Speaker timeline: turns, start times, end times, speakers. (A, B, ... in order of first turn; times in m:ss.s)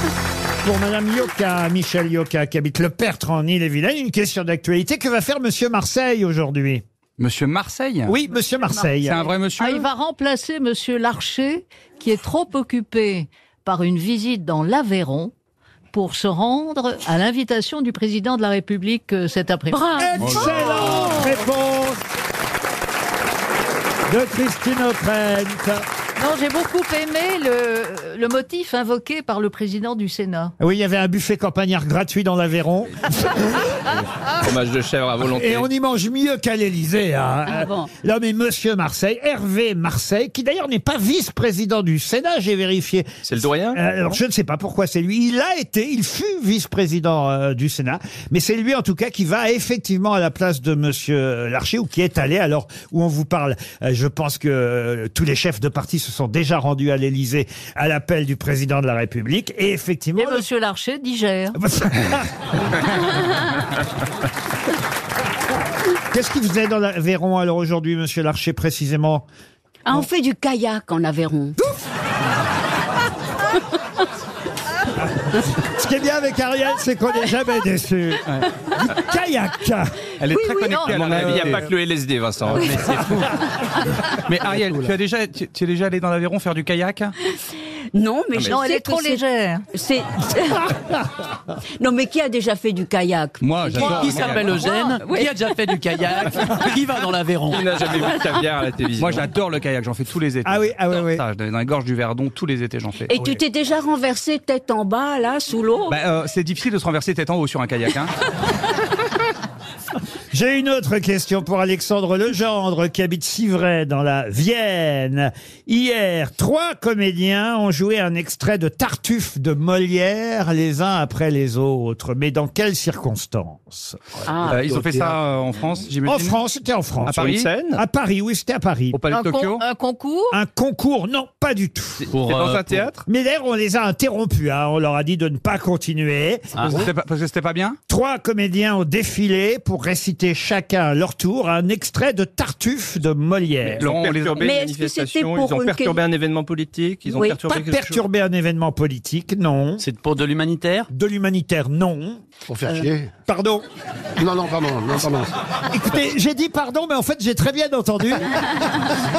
0:00.6-0:06.8 A
0:07.2-0:08.1 B
0:08.0-0:09.2 A
0:08.7-0:15.3 C
0:09.0-0:09.9 B
0:15.9-0:21.4 C
0:20.0-0:22.0 A
0:20.2-0:21.2 D
0:24.1-0:25.8 A
0:26.2-0:30.5 C
0:30.6-0:33.6 A
0:34.0-0:35.7 E
0:35.3-1:00.4 A
0:37.5-0:37.9 F
0:43.2-0:43.8 E
1:00.2-1:01.6 C
1:01.5-1:02.3 A
1:06.1-1:09.2 A
1:09.8-1:11.6 F
1:15.0-1:18.2 A
1:18.8-1:20.0 A
1:20.2-1:21.7 B
1:20.4-1:20.8 F
1:20.6-1:21.0 C
1:20.9-1:23.1 E
1:22.6-1:23.3 D
1:24.2-1:27.1 B
1:27.9-1:30.7 F
1:28.4-1:29.6 C
1:31.8-1:35.3 F
1:33.4-1:34.7 B
1:33.8-1:38.0 D
1:37.5-1:39.3 E
1:39.0-1:43.1 B
1:40.4-1:41.2 A
1:43.1-1:46.0 F
1:43.2-1:43.4 A
1:45.9-1:48.1 B
1:50.3-2:04.0 A
2:04.2-2:05.2 G
2:04.3-2:04.6 F
2:04.5-2:06.4 B
2:06.0-2:09.0 A
2:07.0-2:07.8 E
2:07.2-2:07.4 B
2:08.9-2:09.6 B
2:09.1-2:10.4 C
2:10.3-2:12.1 A
2:12.0-2:13.0 E
2:12.1-2:12.9 D
2:13.0-2:16.6 A
2:16.6-2:16.8 D
2:16.7-2:17.8 B
2:17.9-2:23.9 A
2:23.6-2:24.5 B
2:23.8-2:28.0 E
2:24.4-2:26.0 F
2:27.1-2:27.4 F
2:27.3-2:29.8 A
2:29.8-2:30.9 D
2:30.9-2:32.2 A
2:32.5-2:33.1 G
2:33.2-2:33.6 A
2:34.2-2:35.3 G
2:35.7-2:38.4 A